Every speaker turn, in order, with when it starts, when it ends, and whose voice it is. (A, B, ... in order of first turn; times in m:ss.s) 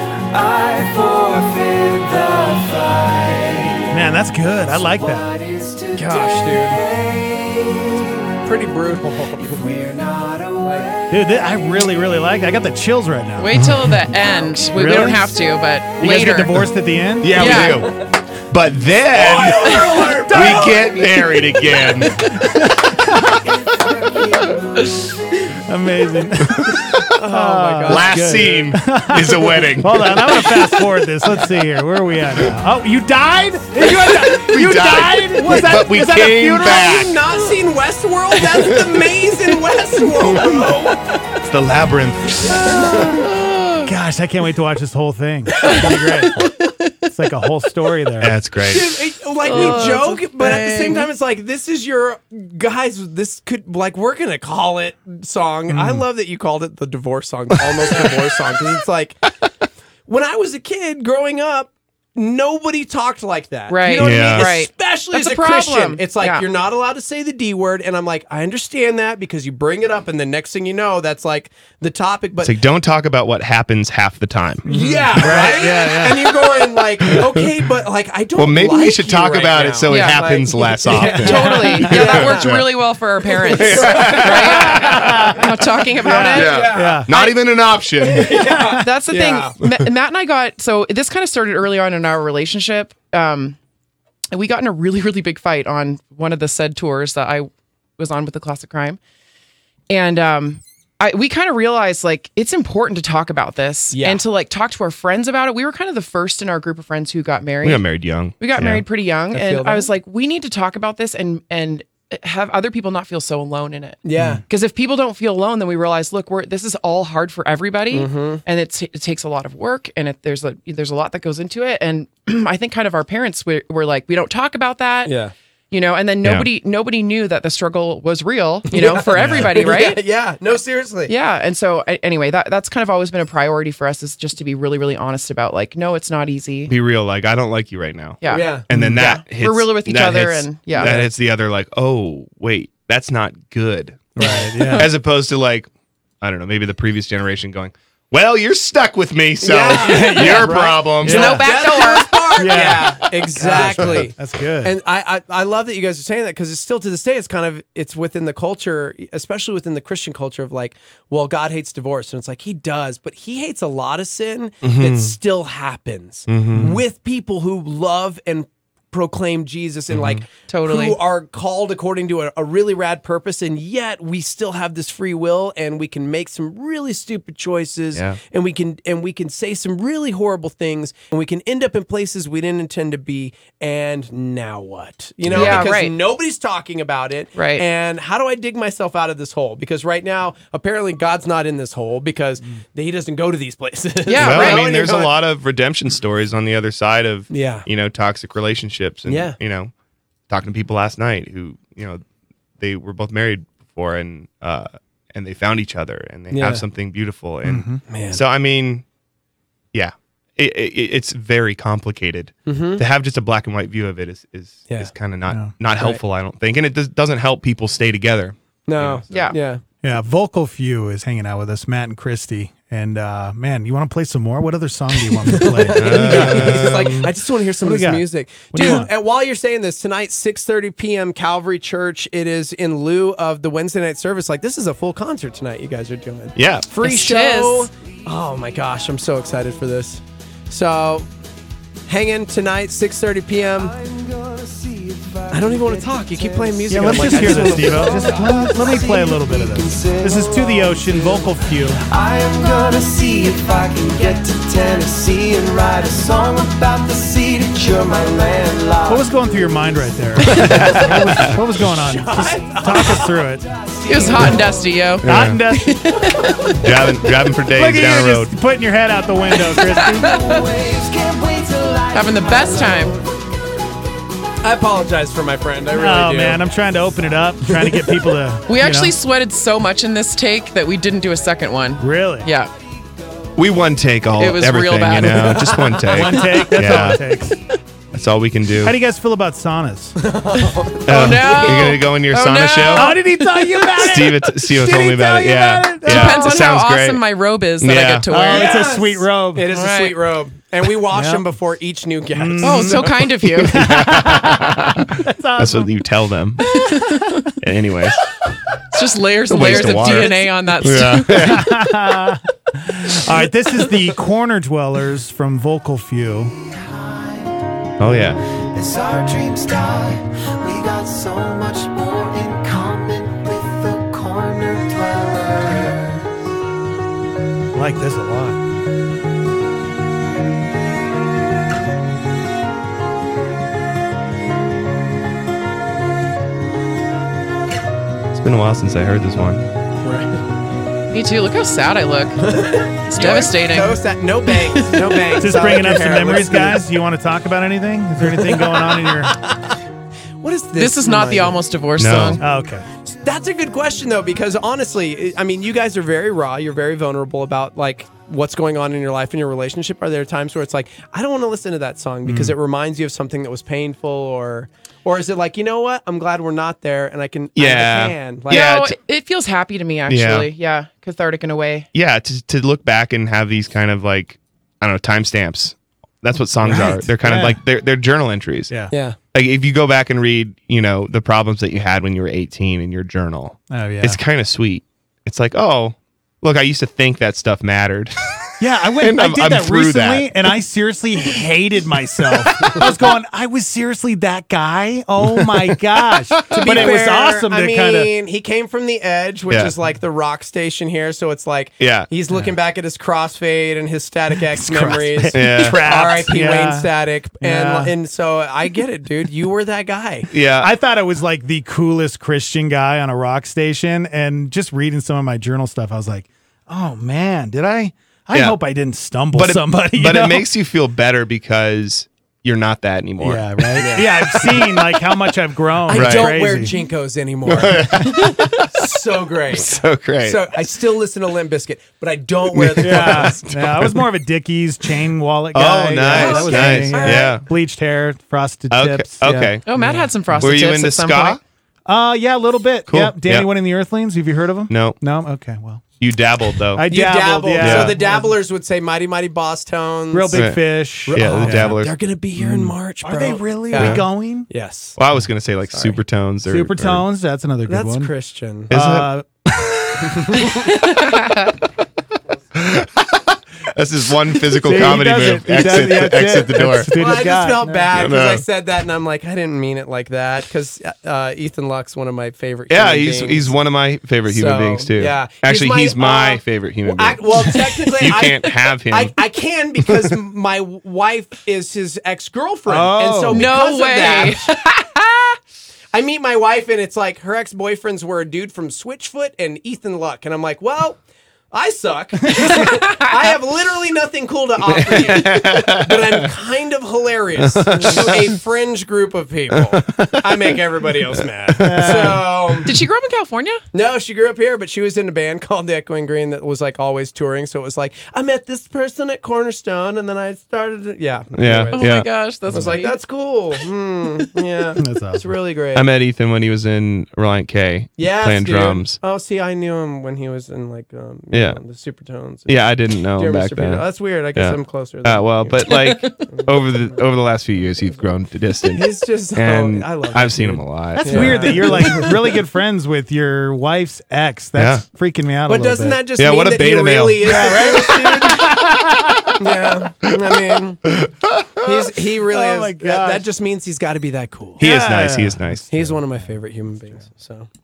0:00.3-0:04.0 A
0:03.9-0:05.3 B
0:04.7-0:08.4 A
0:05.9-0:06.8 C
0:08.4-0:09.6 C
0:09.4-0:11.2 A
0:10.6-0:10.9 C
0:11.1-0:15.4 B
0:13.4-0:16.6 D
0:16.0-0:17.6 B
0:17.2-0:18.0 E
0:17.3-0:17.8 D
0:17.5-0:18.0 C
0:18.5-0:22.2 E
0:19.2-0:21.0 C
0:19.3-0:21.2 A
0:19.7-0:20.1 D
0:22.4-0:23.4 B
0:23.3-0:25.1 A
0:25.7-0:36.8 B
0:26.5-0:27.1 E
0:27.1-0:28.7 C
0:27.9-0:30.4 E
0:33.8-0:37.2 E
0:35.5-0:35.8 C
0:36.4-0:41.1 C
0:38.6-0:39.0 E
0:40.3-0:40.7 E
0:41.4-0:43.1 E
0:43.0-0:43.9 D
0:43.8-0:48.3 B
0:45.6-0:46.3 C
0:46.4-0:46.9 D
0:48.2-0:48.9 E
0:48.6-0:59.2 C
0:49.4-0:51.1 D
0:55.7-0:56.0 B
0:57.7-0:58.1 E
1:00.1-1:12.6 C
1:03.7-1:06.4 D
1:04.0-1:04.5 E
1:12.4-1:15.6 E
1:14.6-1:16.4 B
1:14.7-1:22.5 C
1:17.0-1:17.4 E
1:18.4-1:22.7 E
1:19.9-1:20.4 D
1:20.9-1:27.4 D
1:23.4-1:24.9 C
1:23.5-1:25.4 E
1:24.9-1:25.5 B
1:26.0-1:27.1 B
1:26.1-1:27.1 C
1:26.3-1:28.5 E
1:28.0-1:29.5 C
1:28.3-1:28.8 B
1:28.7-1:33.6 D
1:34.3-1:39.0 D
1:39.9-1:47.8 D
1:43.9-1:44.2 C
1:47.6-1:48.8 E
1:48.4-2:05.1 D
1:49.3-1:49.9 C
1:54.0-1:54.4 C
1:57.9-1:58.4 C
2:05.0-2:05.3 C
2:05.7-2:10.0 D
2:08.7-2:11.1 C
2:09.2-2:09.5 E
2:11.1-2:16.7 D
2:16.7-2:25.7 E
2:18.2-2:20.9 D
2:18.3-2:18.7 C
2:18.7-2:19.0 B
2:20.8-2:21.1 C
2:24.2-2:24.9 B
2:26.2-2:31.4 E
2:29.4-3:15.2 C
2:29.8-2:31.5 B
2:31.0-2:32.6 D
2:32.4-2:34.7 B
2:33.5-2:34.0 E
2:44.6-2:45.1 E
2:46.3-2:46.8 E
2:46.5-2:46.8 B
2:49.9-2:50.2 E
2:50.5-2:51.0 D
2:57.9-2:58.2 E
3:05.2-3:05.7 E
3:05.3-3:05.9 D
3:07.3-3:07.6 D
3:14.0-3:14.7 D
3:14.2-3:19.7 E
3:17.3-3:17.6 C
3:19.1-3:19.4 C
3:20.3-3:22.0 E
3:22.6-3:28.8 E
3:26.3-3:26.6 C
3:27.4-3:27.8 B
3:27.9-3:28.2 C
3:29.7-3:39.3 E
3:32.4-3:32.8 C
3:35.3-3:35.5 B
3:35.7-3:36.0 C
3:38.7-3:39.6 C
3:39.1-3:39.4 D
3:39.8-3:46.9 B
3:45.2-4:01.1 C
3:45.7-3:47.1 E
3:47.6-3:48.9 B
3:56.4-3:56.7 E
3:56.8-3:57.7 D
4:01.9-4:03.7 C
4:03.6-4:19.1 A
4:05.3-4:08.0 C
4:06.7-4:11.8 B
4:18.9-4:23.5 B
4:20.3-4:21.4 A
4:20.4-4:21.4 E
4:21.9-4:24.6 A
4:21.9-4:23.0 C
4:23.8-4:26.6 D
4:25.0-4:25.4 E
4:25.0-4:26.1 B
4:26.6-4:28.3 E
4:27.5-4:30.1 B
4:29.4-4:30.5 D
4:30.0-4:33.2 A
4:31.9-4:33.0 D
4:34.4-4:36.4 C
4:35.7-4:39.0 B
4:37.4-4:38.1 C
4:38.5-4:42.5 D
4:41.8-4:42.3 B
4:43.4-4:47.0 E
4:44.2-4:45.8 D
4:45.1-4:46.4 C
4:45.8-4:47.4 B
4:47.9-4:48.8 E
4:48.6-4:50.0 B
4:50.0-4:51.8 C
4:50.8-4:53.0 E
4:50.9-4:53.0 D
4:52.7-4:56.3 B
4:53.7-4:57.0 E
4:55.8-4:58.7 D
4:57.6-4:58.0 E
4:58.1-4:59.4 B
4:58.3-5:03.1 C
4:59.5-4:59.9 D
5:00.9-5:01.2 B
5:02.2-5:02.9 B
5:02.4-5:03.7 D
5:03.2-5:06.4 E
5:03.4-5:05.7 B
5:06.4-5:07.3 D
5:07.4-5:08.0 E
5:08.7-5:11.5 D
5:09.3-5:11.6 E
5:09.4-5:10.1 C
5:11.1-5:16.3 B
5:16.4-5:17.4 A
5:17.8-5:18.2 E
5:18.5-5:26.2 A
5:27.5-5:28.4 B
5:38.1-5:39.4 E
5:39.8-5:40.2 C
5:40.9-5:43.8 D
5:42.2-5:46.6 C
5:44.3-5:45.0 D
5:45.2-5:49.2 B
5:48.0-5:49.4 C
5:50.2-5:51.4 C
5:50.6-5:52.2 D
5:51.8-5:52.2 E
5:52.2-5:52.6 B
5:53.0-6:08.6 C
6:02.0-6:02.3 B
6:07.3-6:08.8 E
6:08.3-6:11.7 D
6:09.9-6:10.3 E
6:11.7-6:18.5 E
6:16.4-6:17.4 B
6:18.7-6:19.0 C
6:19.1-6:28.1 E
6:23.5-6:24.0 B
6:28.4-6:37.9 B
6:28.8-6:30.1 E
6:35.2-6:36.8 E
6:36.3-6:50.1 C
6:39.3-6:39.5 E
6:41.6-6:41.9 E
6:44.3-6:46.7 B
6:45.1-6:45.7 E
6:47.2-6:47.7 B
6:50.1-6:50.5 E
6:50.4-7:00.2 B
6:58.1-6:58.4 E
6:59.1-7:04.5 E
7:03.0-7:06.5 B
7:03.6-7:04.4 C
7:05.6-7:13.6 C
7:05.7-7:06.2 E
7:07.2-7:08.7 E
7:09.3-7:10.5 E
7:12.3-7:13.8 E
7:12.6-7:20.3 B
7:15.3-7:17.2 E
7:15.8-7:17.2 C
7:18.5-7:19.4 E
7:19.4-7:21.2 D
7:20.2-7:21.2 E
7:21.6-7:25.6 B
7:22.7-7:23.3 E
7:24.5-7:24.8 E
7:25.8-7:26.7 E
7:26.4-7:28.2 B
7:26.7-7:30.3 C
7:27.4-7:27.8 E
7:29.9-7:31.6 B
7:30.1-7:31.7 E
7:30.9-7:34.8 C
7:32.2-7:34.3 B
7:33.5-7:33.8 E
7:34.8-7:36.8 E
7:35.5-7:35.8 C
7:36.3-7:37.9 B
7:37.4-7:38.5 C
7:38.5-7:40.3 E
7:38.5-7:39.0 B
7:39.8-7:40.6 C
7:40.6-7:41.3 D
7:42.3-7:46.8 E
7:44.4-7:47.7 B
7:46.4-7:53.3 C
7:47.7-7:48.2 E
7:52.5-7:58.9 E
7:54.1-8:04.4 C
8:02.5-8:03.3 B
8:03.1-8:05.2 D
8:05.7-8:10.8 C
8:11.3-8:22.5 C
8:12.1-8:12.9 D
8:14.4-8:16.1 E
8:17.2-8:18.2 E
8:19.3-8:20.4 E
8:21.0-8:21.9 E
8:21.4-8:22.1 B
8:22.4-8:23.4 D
8:23.5-8:35.6 C
8:31.1-8:32.5 E
8:31.5-8:32.8 D
8:34.6-8:35.1 B
8:35.5-8:38.8 E
8:37.8-8:46.8 C
8:41.1-8:41.4 E
8:42.3-8:51.6 E
8:45.5-8:46.0 D
8:48.5-8:52.2 C
8:50.8-8:55.8 B
8:54.4-8:54.6 E
8:55.2-8:58.4 C
8:56.0-8:59.2 E
8:57.0-8:59.1 B
8:59.2-9:00.7 C
9:00.6-9:01.7 E
9:01.4-9:04.5 C
9:02.1-9:03.0 B
9:04.4-9:05.7 B
9:04.4-9:05.7 E
9:05.5-9:07.3 C